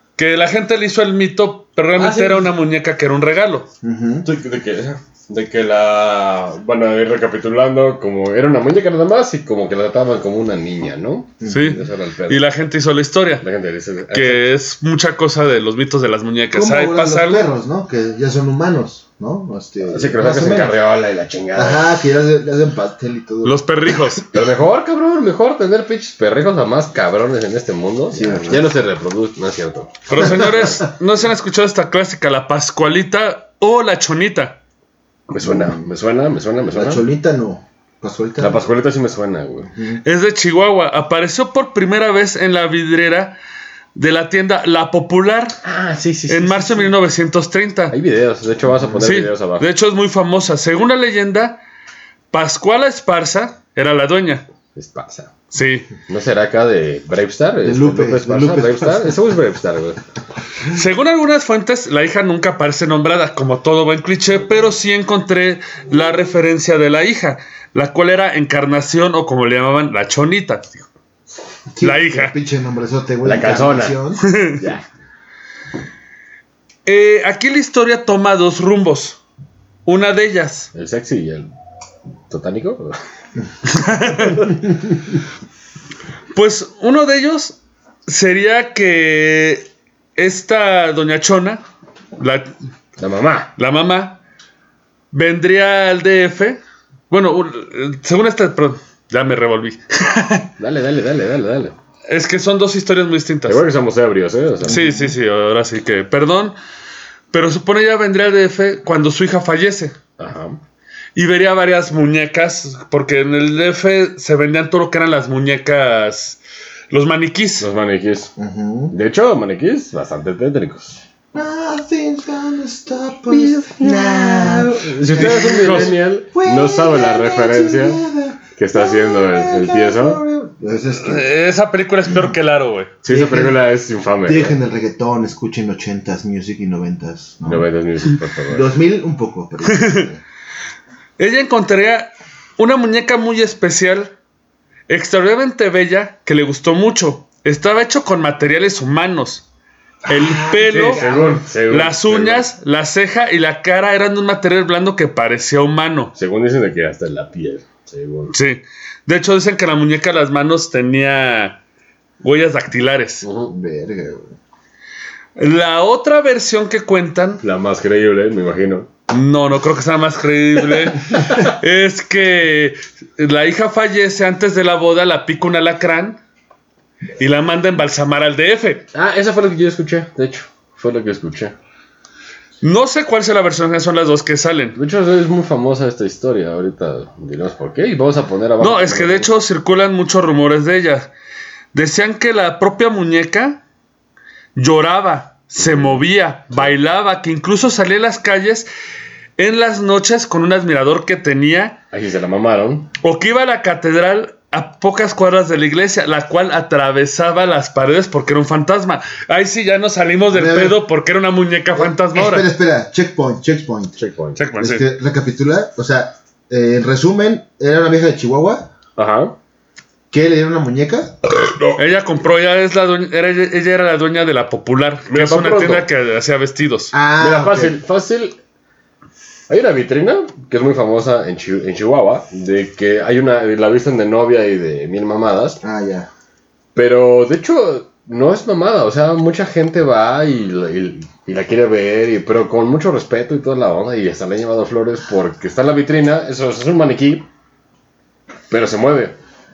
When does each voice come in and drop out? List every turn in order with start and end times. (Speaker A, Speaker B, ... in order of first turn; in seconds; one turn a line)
Speaker A: 0.2-3.7
Speaker B: 2.0-2.5
Speaker C: 3.8-4.3
Speaker B: 4.2-12.4
Speaker C: 11.4-11.7
Speaker A: 11.5-13.4
Speaker B: 13.4-14.4
Speaker A: 14.1-17.4
Speaker C: 16.5-20.8
Speaker B: 19.9-21.9
Speaker C: 21.6-23.6
Speaker A: 23.4-24.3
Speaker B: 24.3-30.8
Speaker C: 28.1-28.6
Speaker A: 30.1-34.6
Speaker C: 30.2-30.8
Speaker B: 35.3-37.0
Speaker C: 35.4-35.8
Speaker C: 36.7-38.6
Speaker B: 38.4-39.7
Speaker C: 39.7-40.0
Speaker A: 40.0-43.4
Speaker A: 43.9-45.5
Speaker B: 45.6-46.9
Speaker A: 46.3-47.9
Speaker B: 47.9-49.6
Speaker C: 48.7-49.0
Speaker A: 49.0-51.6
Speaker A: 52.3-54.4
Speaker B: 54.7-55.3
Speaker A: 55.5-55.9
Speaker B: 56.1-60.0
Speaker C: 57.6-59.2
Speaker A: 60.7-70.8
Speaker C: 71.7-74.2
Speaker A: 71.8-72.3
Speaker B: 73.2-74.0
Speaker A: 74.2-74.6
Speaker B: 74.6-74.8
Speaker A: 76.8-79.2
Speaker A: 79.8-80.7
Speaker B: 80.7-81.5
Speaker B: 82.3-83.0
Speaker A: 83.6-84.4
Speaker B: 84.1-85.1
Speaker A: 86.3-87.5
Speaker A: 88.1-91.6
Speaker A: 92.2-92.5
Speaker B: 93.0-93.5
Speaker A: 93.6-94.2
Speaker A: 95.1-100.5
Speaker B: 100.6-101.7
Speaker A: 102.1-103.7
Speaker B: 103.5-104.8
Speaker C: 104.7-105.1
Speaker A: 104.7-106.5
Speaker A: 107.3-110.0
Speaker B: 110.2-110.6
Speaker A: 111.2-116.4
Speaker A: 116.9-117.7
Speaker B: 117.6-118.3
Speaker C: 118.4-118.9
Speaker B: 118.9-121.0
Speaker C: 121.3-131.3
Speaker B: 123.3-128.0
Speaker A: 125.2-125.9
Speaker B: 128.6-130.2
Speaker A: 131.0-132.9
Speaker B: 133.0-134.6
Speaker C: 133.1-133.6
Speaker C: 134.2-137.7
Speaker B: 137.4-138.7
Speaker C: 138.5-140.2
Speaker A: 139.7-140.0
Speaker A: 141.2-144.1
Speaker A: 144.9-149.4
Speaker C: 150.1-151.4
Speaker A: 150.1-151.0
Speaker B: 150.7-152.5
Speaker A: 151.7-156.1
Speaker B: 156.1-158.3
Speaker A: 158.3-161.6
Speaker A: 162.2-163.2
Speaker B: 163.2-163.5
Speaker C: 163.5-164.3
Speaker A: 165.3-167.4
Speaker B: 167.4-168.9
Speaker A: 169.1-176.2
Speaker A: 177.2-178.8
Speaker B: 178.9-181.5
Speaker A: 182.6-184.8
Speaker B: 184.8-189.3
Speaker A: 188.6-191.1
Speaker A: 191.7-193.6
Speaker A: 194.6-198.7
Speaker B: 195.6-196.7
Speaker A: 199.4-201.8
Speaker B: 201.9-202.9
Speaker A: 203.0-212.4
Speaker C: 210.3-210.8
Speaker C: 211.7-214.0
Speaker B: 214.0-214.4
Speaker A: 214.3-214.8
Speaker C: 214.6-218.7
Speaker B: 218.9-219.3
Speaker C: 220.1-221.2
Speaker A: 221.8-226.9
Speaker B: 225.1-225.9
Speaker C: 226.9-227.8
Speaker B: 227.2-228.4
Speaker B: 229.5-235.6
Speaker C: 235.6-236.1
Speaker B: 236.7-247.2
Speaker B: 248.5-249.2